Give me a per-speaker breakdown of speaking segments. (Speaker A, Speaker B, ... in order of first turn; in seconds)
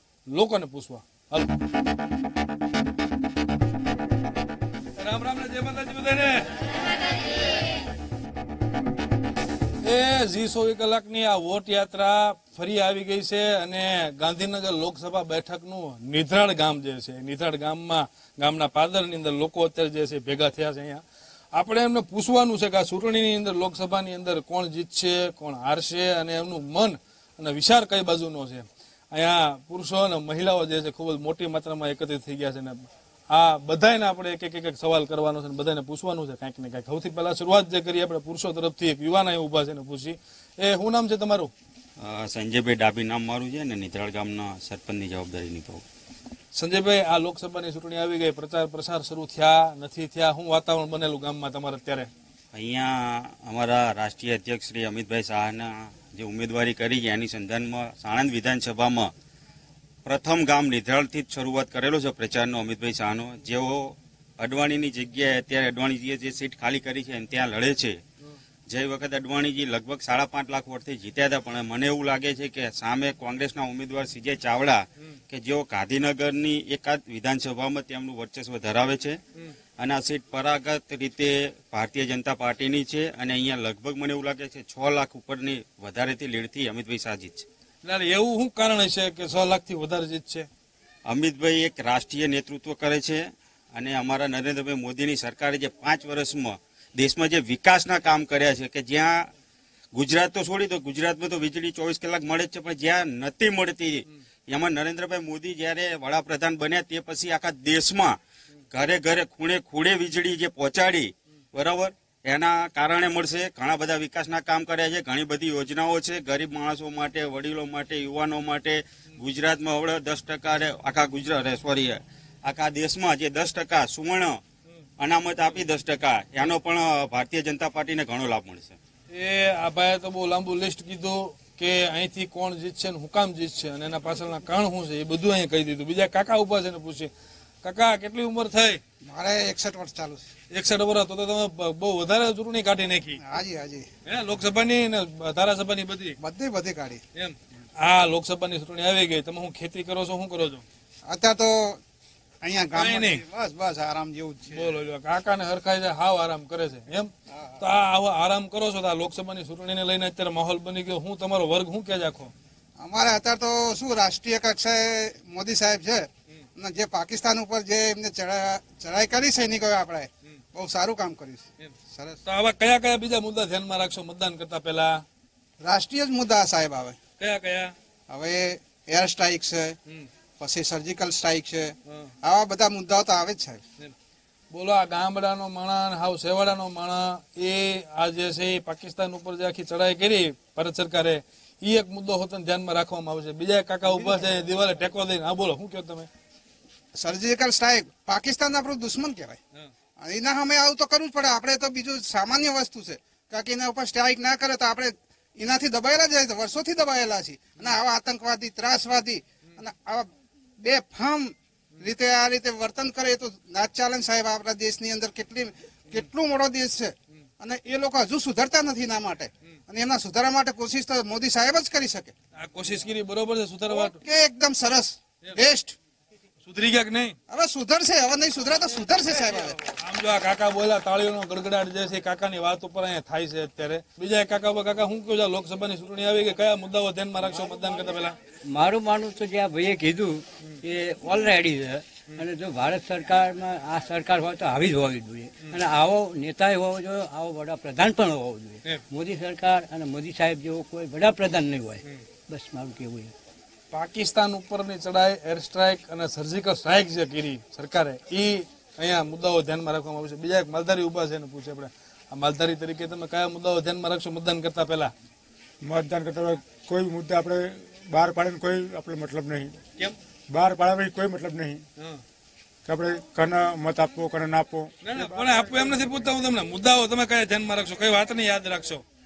Speaker A: 0.3-1.5, 5.0-6.5, 9.8-21.0, 21.5-41.5, 46.5-52.1, 87.8-90.5, 129.1-137.1, 137.6-138.8, 140.5-143.2, 144.1-146.2, 147.2-150.7, 152.7-153.2, 154.5-162.3, 171.6-175.0, 177.2-177.7, 184.5-196.1, 222.4-224.0, 226.4-227.2, 229.1-238.2, 253.7-264.9, 274.8-278.8
Speaker B: 42.0-45.9, 52.5-59.1, 60.1-68.0, 68.7-79.2, 79.8-87.5, 91.1-93.2, 93.8-99.3, 99.9-108.2, 108.7-124.4, 125.0-128.8
Speaker C: 139.0-140.3, 143.2-143.9, 146.2-147.0, 151.1-151.8, 152.4-154.8, 162.8-172.2, 175.6-177.0, 178.1-179.8, 180.4-183.6, 196.9-199.4, 200.0-210.1, 210.6-222.1, 223.7-225.8, 227.3-229.6
Speaker D: 238.5-253.1
Speaker E: 265.6-269.6, 270.3-271.6, 272.6-275.8